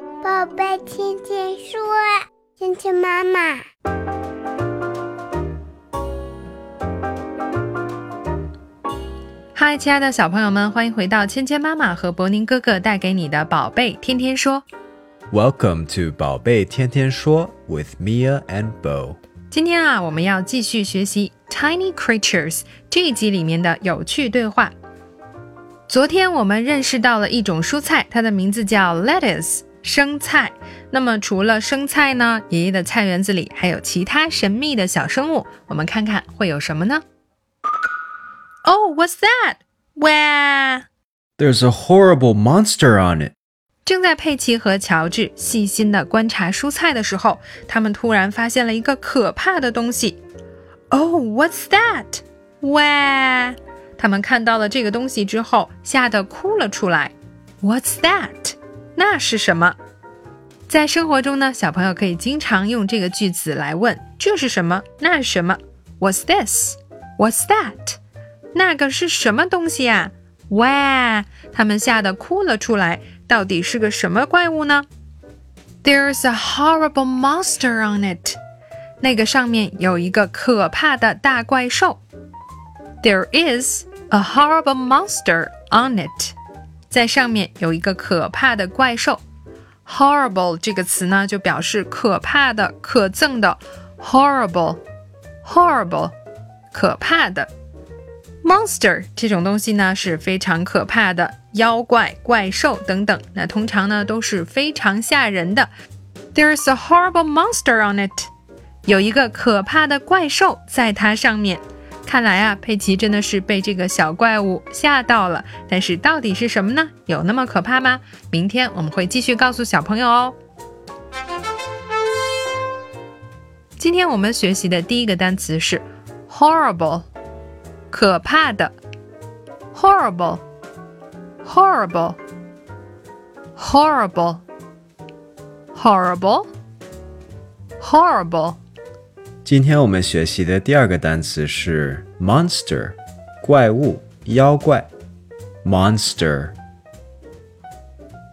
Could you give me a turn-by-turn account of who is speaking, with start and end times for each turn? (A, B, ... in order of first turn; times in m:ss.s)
0:00.2-0:03.6 A
0:09.5-0:14.6 B
0:15.3-0:19.2 C
0:19.5-0:24.7 B
0:25.9-0:37.0 B
0:38.6-0:40.8 B
0:41.4-0:43.3 C
0:43.8-0:50.2 B
0:50.9-0:59.8 B
1:00.7-1:08.0 B
1:08.5-1:14.9 B
1:15.8-1:18.4 B
1:19.0-1:22.0 B
1:23.0-1:26.3 B
1:26.9-1:29.2 B
1:29.8-1:34.8 B
1:35.4-1:36.1 B
1:36.7-1:37.5 B
1:38.4-1:45.7 B
1:46.3-1:48.3 B
1:48.8-2:00.4 B
2:03.8-2:07.1 B
2:07.9-2:08.8 B
2:09.7-2:10.4 B
2:11.4-2:12.2 B
2:13.6-2:14.4 B
2:15.7-2:16.5 B
2:17.8-2:18.6 B
2:19.4-2:24.9 C
2:25.6-2:26.6 C